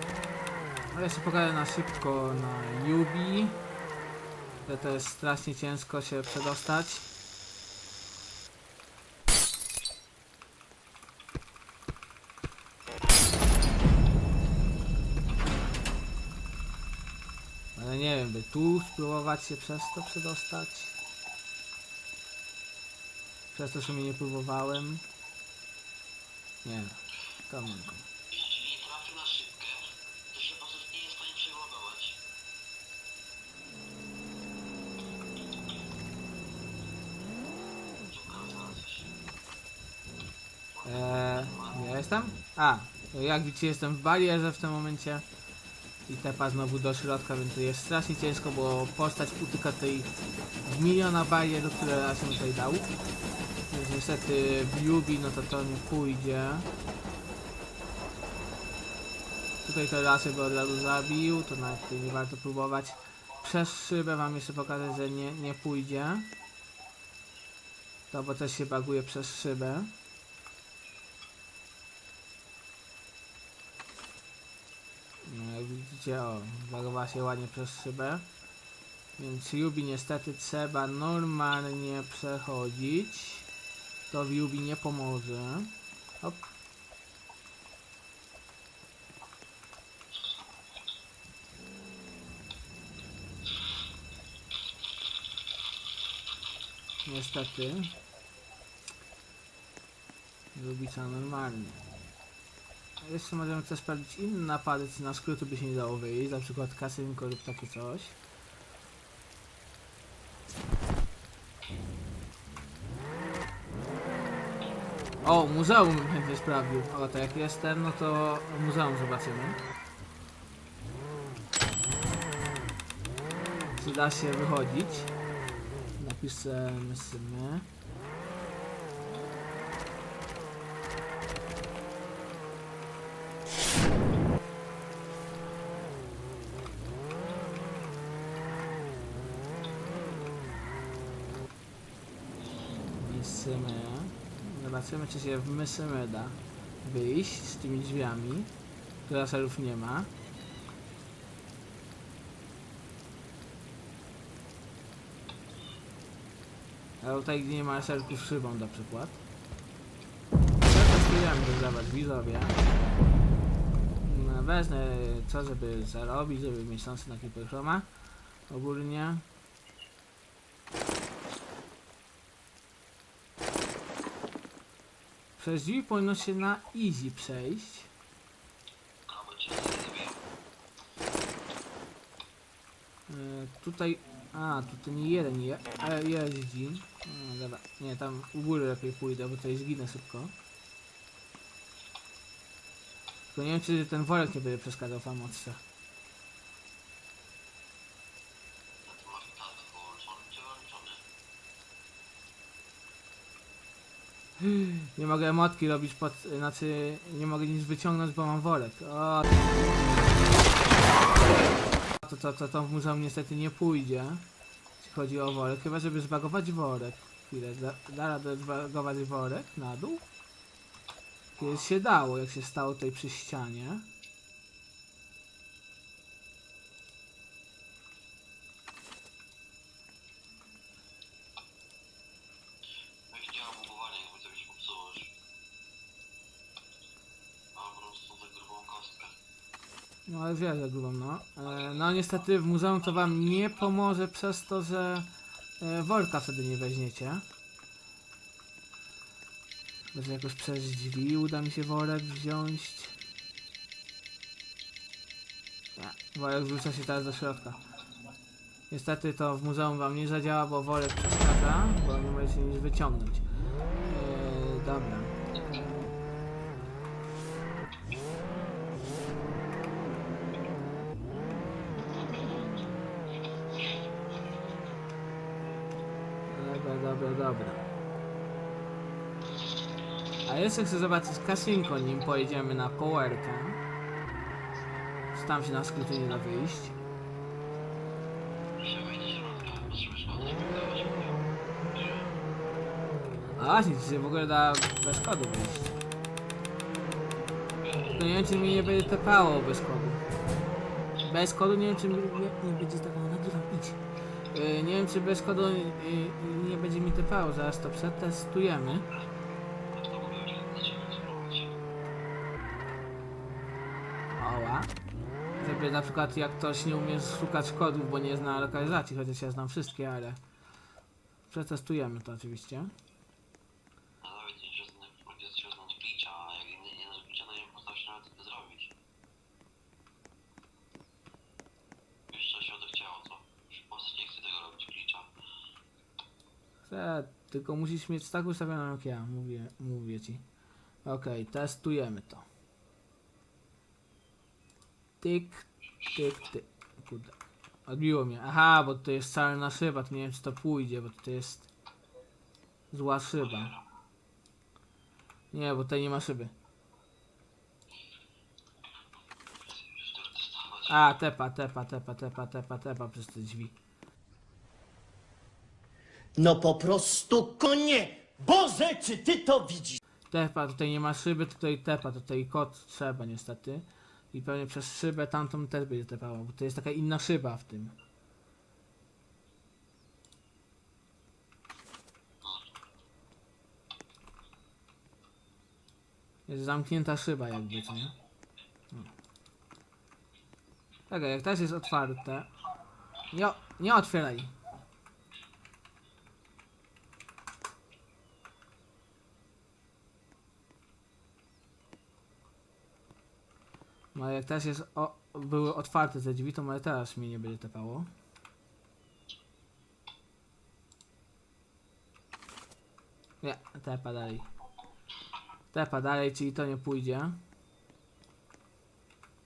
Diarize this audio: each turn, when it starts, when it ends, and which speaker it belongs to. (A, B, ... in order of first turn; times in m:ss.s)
0:00.9-0:03.6 A
0:04.6-0:07.1 A
0:17.8-0:21.0 A
0:23.5-0:25.0 A
0:26.6-0:28.1 A
0:28.3-0:32.2 B
0:38.1-0:39.2 B
0:40.7-0:41.9 B
0:40.8-0:45.2 A
0:46.1-0:50.1 A
0:50.6-0:52.9 A
0:53.7-0:56.7 A
0:59.6-1:06.3 A
1:08.1-1:09.9 A
1:15.2-1:18.2 A
1:19.2-1:23.5 A
1:24.1-1:26.4 A
1:37.0-1:37.9 A
1:40.5-1:41.8 A
1:43.0-1:48.2 A
1:55.2-1:59.6 A
2:03.7-2:05.1 A
2:06.0-2:07.7 A
2:23.0-2:28.5 A
2:29.0-2:30.1 A
2:37.0-2:39.2 A
2:40.6-2:42.6 A
2:44.0-2:47.9 A
2:48.5-2:49.2 A
2:55.4-2:57.9 A
2:59.1-3:00.2 B
3:03.1-3:10.3 A
3:13.3-3:15.6 A
3:18.8-3:21.0 B
3:24.4-3:29.3 A
3:32.0-3:34.2 A
3:34.8-3:40.0 A
3:41.4-3:43.8 A
3:53.1-3:55.1 B
3:57.5-3:59.2 B
4:00.1-4:05.1 A
4:05.6-4:07.2 A
4:09.9-4:12.9 A
4:15.8-4:17.6 A
4:18.7-4:23.2 A
4:23.8-4:25.2 A
4:36.3-4:37.6 A
4:40.2-4:43.6 A
4:45.1-4:46.8 A
4:48.6-4:52.1 B
4:53.4-4:55.8 A
4:57.6-4:58.7 B
4:57.8-5:00.0 A
5:01.0-5:03.8 A
5:04.3-5:08.8 A
5:09.7-5:11.6 B
5:14.1-5:14.7 A
5:15.4-5:20.2 A
5:21.3-5:22.7 A
5:24.0-5:28.7 B
5:32.1-5:35.1 B
5:36.7-5:40.2 A
5:40.8-5:42.2 A
5:45.0-5:47.1 A
5:47.7-5:51.5 A
5:52.7-5:53.5 A
5:55.3-5:56.3 A
5:59.4-6:00.8 B
6:00.7-6:03.5 A
6:06.2-6:09.8 C
6:10.1-6:17.7 A
6:26.3-6:27.9 A
6:30.9-6:32.3 A
6:33.1-6:34.3 A
6:43.9-6:47.9 A
6:53.2-6:54.3 A
6:55.5-6:57.2 A